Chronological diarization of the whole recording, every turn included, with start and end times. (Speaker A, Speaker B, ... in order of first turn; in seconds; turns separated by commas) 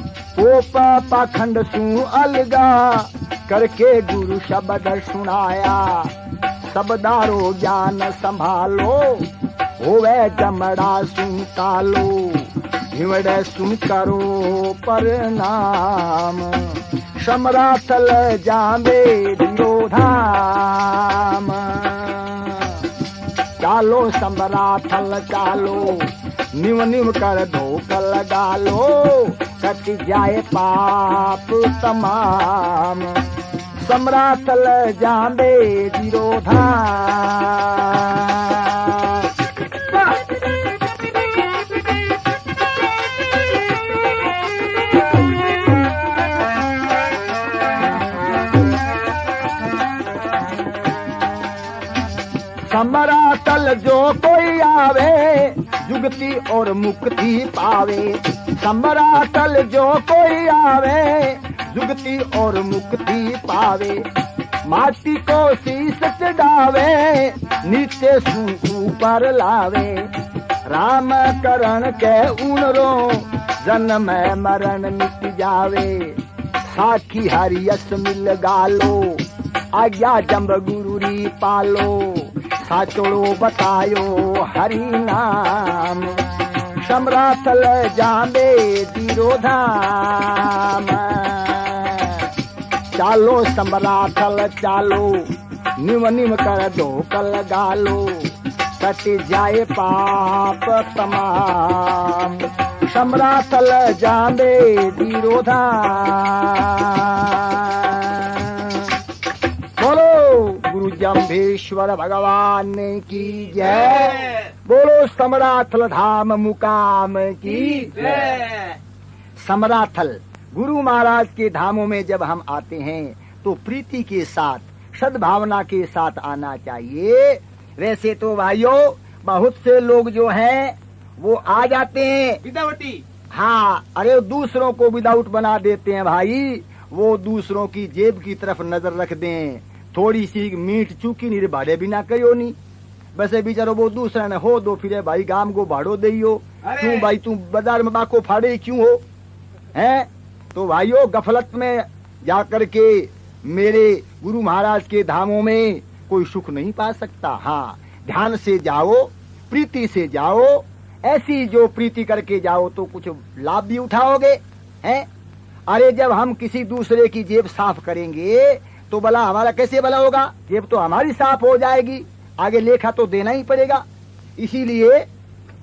Speaker A: 0.3-6.1, Speaker A: 6.6-22.9, Speaker A: 23.6-33.3, Speaker A: 33.8-39.3, Speaker A: 52.7-64.0, Speaker A: 64.7-70.1, Speaker A: 70.7-86.2, Speaker A: 86.8-92.3, Speaker A: 92.9-108.9, Speaker A: 109.8-118.5, Speaker B: 113.6-114.5, Speaker B: 117.5-118.8, Speaker A: 119.4-132.4, Speaker B: 132.4-133.0, Speaker A: 133.3-142.6, Speaker A: 143.1-149.0, Speaker B: 146.7-147.1, Speaker A: 149.7-165.1, Speaker A: 165.7-173.8, Speaker A: 174.4-175.1